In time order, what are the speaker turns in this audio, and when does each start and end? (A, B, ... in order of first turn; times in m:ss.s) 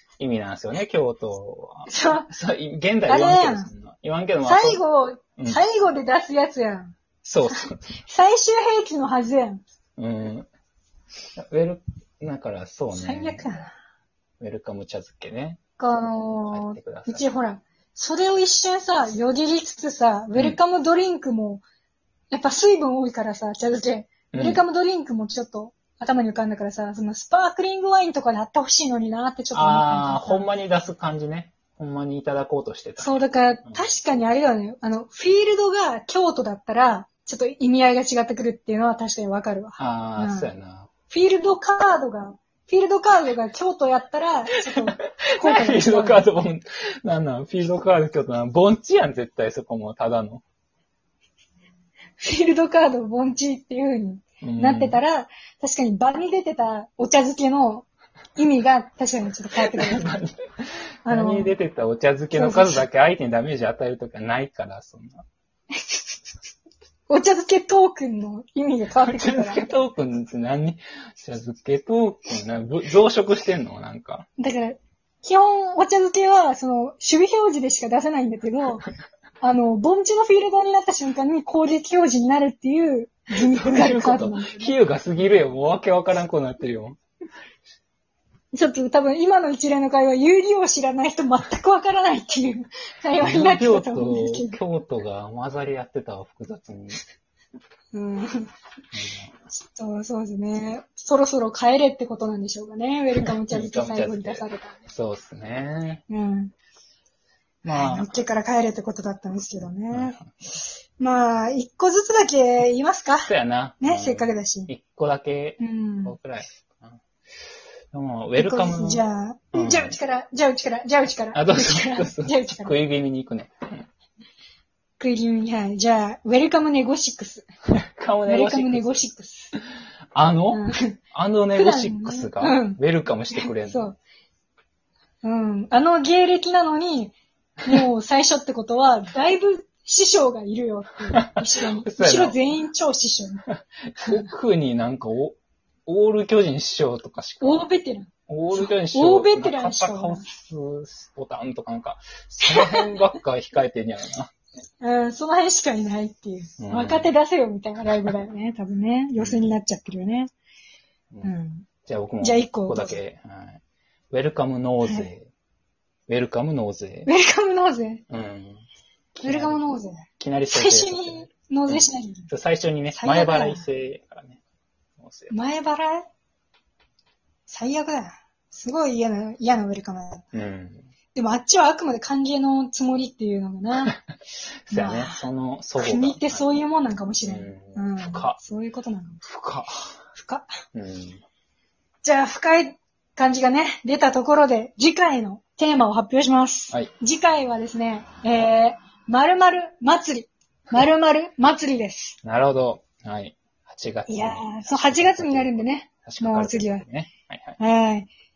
0:00.2-0:04.8 A
0:01.9-0:02.3 B
0:03.1-0:03.7 B
0:04.4-0:07.0 B
0:07.2-0:07.9 A
0:07.5-0:09.6 B
0:10.0-0:10.5 A
0:11.4-0:13.4 A
0:12.9-0:13.7 B
0:14.4-0:15.6 A
0:15.8-0:21.6 B
0:16.5-0:17.2 A
0:22.3-0:30.5 B
0:24.3-0:24.6 A
0:29.5-0:33.9 A
0:33.0-0:40.5 B
0:39.8-0:40.9 A
0:41.1-0:46.2 B
0:45.4-0:50.4 A
0:52.2-1:00.1 B
0:54.4-0:55.0 A
0:59.6-1:05.2 A
1:01.0-1:01.6 B
1:02.3-1:02.8 B
1:07.1-1:09.7 B
1:09.0-1:14.3 A
1:14.4-1:18.8 B
1:19.4-1:24.8 B
1:23.4-1:27.0 A
1:28.5-1:34.6 B
1:33.2-1:37.0 A
1:37.9-1:38.5 B
1:38.9-1:39.4 A
1:39.5-1:44.8 B
1:43.2-1:46.0 A
1:46.1-1:46.5 B
1:47.6-1:48.2 A
1:47.7-1:50.2 B
1:49.9-1:50.6 A
1:51.0-1:54.7 B
1:53.2-1:57.0 A
1:55.6-1:56.1 B
1:57.9-2:00.0 A
1:58.4-2:02.7 B
2:01.3-2:03.9 A
2:05.0-2:07.5 B
2:08.0-2:09.0 A
2:08.3-2:09.5 B
2:10.1-2:13.9 A
2:10.5-2:11.0 B
2:11.5-2:12.8 B
2:13.3-2:14.0 B
2:15.2-2:23.4 B
2:21.1-2:22.4 A
2:24.0-2:27.7 A
2:27.4-2:30.2 B
2:28.3-2:34.3 A
2:32.4-2:32.9 B
2:34.8-2:40.3 B
2:36.6-2:37.1 A
2:39.2-2:39.5 A
2:41.2-2:41.7 B
2:41.8-2:45.3 A
2:42.2-2:43.0 B
2:44.8-2:45.1 B
2:46.1-2:47.1 A
2:47.0-2:48.0 B
2:48.1-2:48.6 A
2:49.1-2:49.6 A
2:49.2-2:52.3 B
2:50.2-2:54.4 A
2:52.9-2:53.6 B
2:55.0-2:55.3 A
2:55.3-2:56.1 B
2:57.5-3:00.2 B
3:00.3-3:00.9 A
3:01.1-3:03.9 B
3:04.7-3:06.5 A
3:04.7-3:05.2 B
3:05.8-3:09.2 B
3:07.2-3:08.4 A
3:09.2-3:10.0 A
3:10.1-3:10.5 B
3:10.7-3:11.2 A
3:12.0-3:22.2 B
3:22.2-3:27.6 A
3:24.1-3:26.8 B
3:27.6-3:28.1 B